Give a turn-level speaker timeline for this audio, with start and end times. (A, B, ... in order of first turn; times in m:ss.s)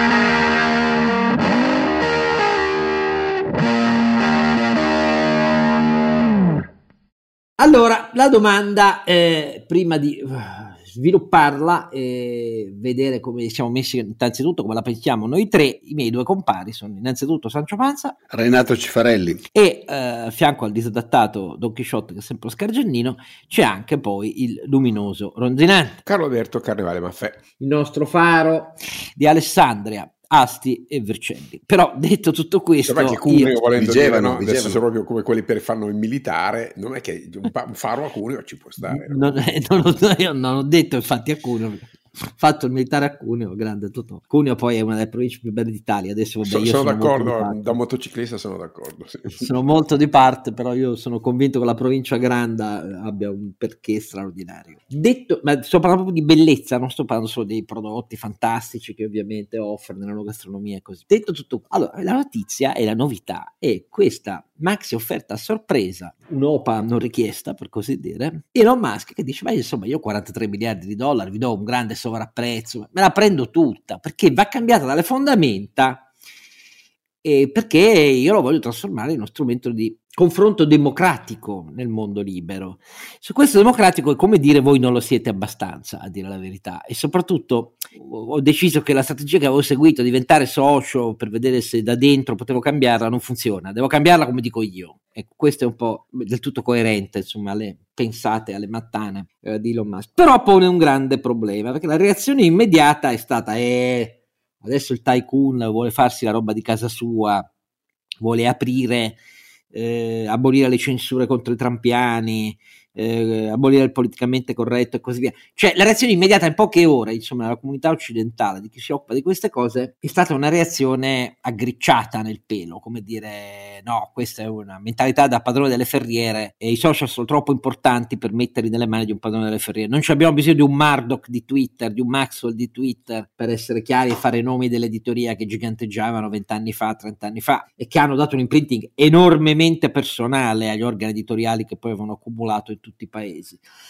0:07.6-0:18.2 A
0:18.3-0:19.4 B
0:19.5-0:26.0 A
0:26.0-0:27.4 C
0:27.6-0:33.6 A
0:32.8-0:39.3 C
0:33.7-0:34.8 B
0:38.9-0:47.7 A
0:46.5-0:49.6 C
0:49.3-1:16.0 A
1:17.2-1:47.4 A
1:48.2-1:49.2 A
1:49.7-2:23.6 A